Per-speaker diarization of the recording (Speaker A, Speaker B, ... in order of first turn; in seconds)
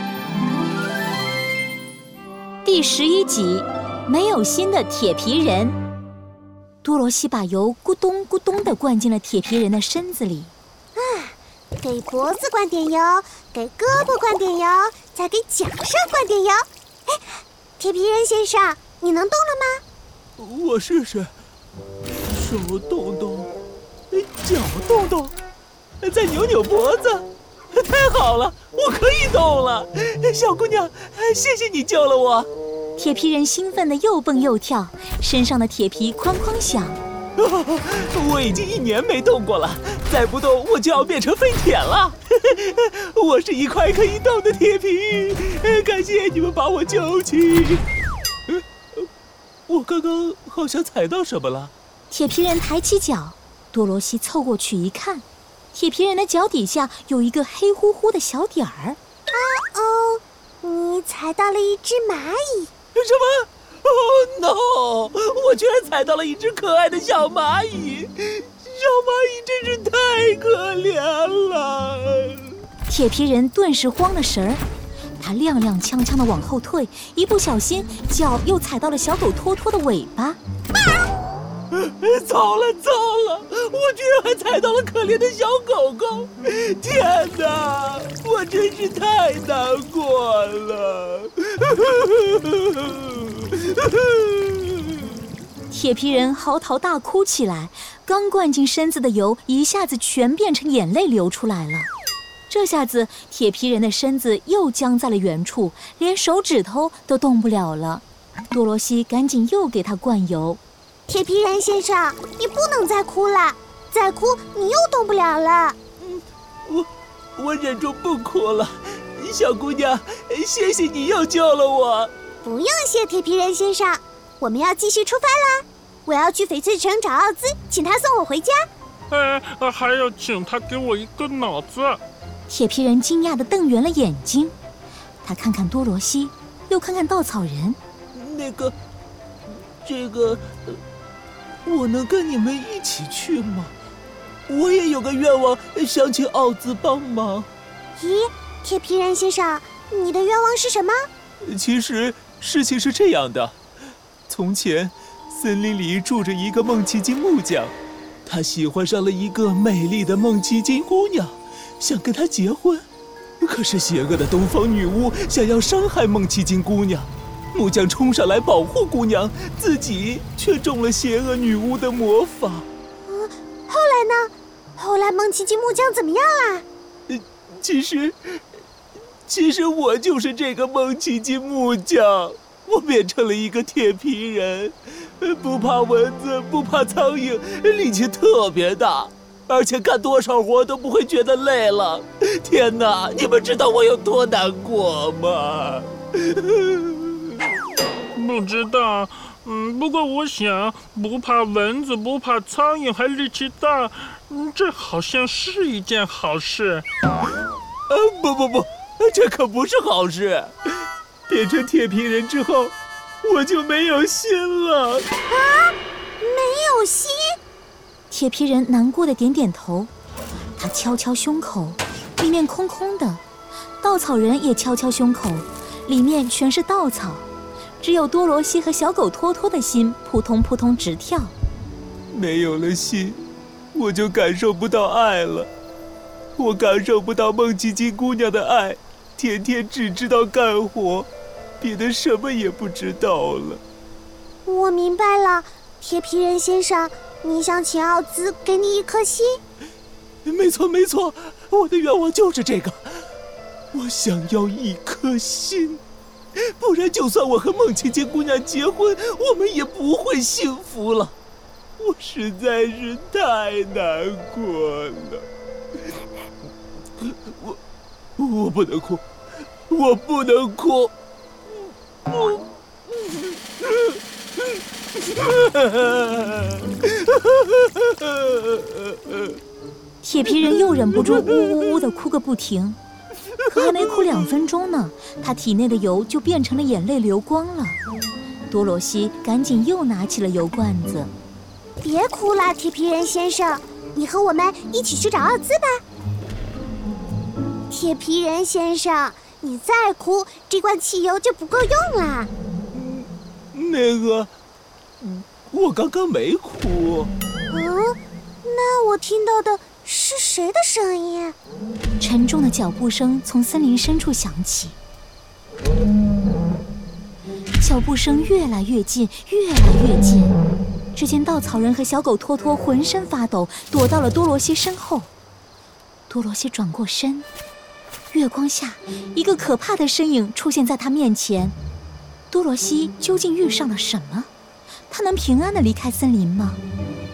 Speaker A: 2.6-5.8, 6.8-10.5, 33.0-37.0, 52.1-59.0, 72.9-74.6, 75.2-80.4, 95.7-101.9, 102.5-110.6, 132.5-134.5, 135.2-137.8, 218.1-219.9, 220.6-223.2, 223.8-227.2, 227.8-231.3, 280.0-282.8, 283.4-287.8, 288.5-291.1, 312.0-314.8, 317.6-320.3, 320.9-325.1, 326.1-327.3, 328.1-331.5, 332.3-334.3, 334.9-336.6
Speaker B: 10.9-17.2, 17.8-19.8, 59.3-62.7, 111.1-115.8, 122.4-128.6, 148.0-151.0, 173.1-176.6, 215.3-217.2, 244.4-249.4, 291.8-295.8, 297.7-302.3, 307.5-311.3
Speaker C: 20.4-21.3, 22.3-23.5, 24.1-25.3, 26.0-32.5, 37.4-47.8, 49.7-51.7, 62.9-72.6, 81.7-95.0, 116.0-122.1, 138.1-138.7, 139.8-140.8, 141.6-143.7, 144.5-147.5, 151.4-153.6, 154.3-162.8, 163.4-172.7, 177.1-178.4, 179.3-197.4, 207.9-210.7, 211.3-215.0, 232.1-235.5, 236.4-241.1, 241.6-243.6, 250.2-253.0, 253.7-255.8, 256.3-261.1, 261.8-265.2, 267.0-267.6, 268.2-269.0, 269.7-270.9, 272.1-272.4, 273.0-274.0, 274.9-279.4, 280.9-281.2, 283.4-284.4, 302.7-304.3, 305.0-307.1
Speaker D: 129.1-132.0, 198.1-206.8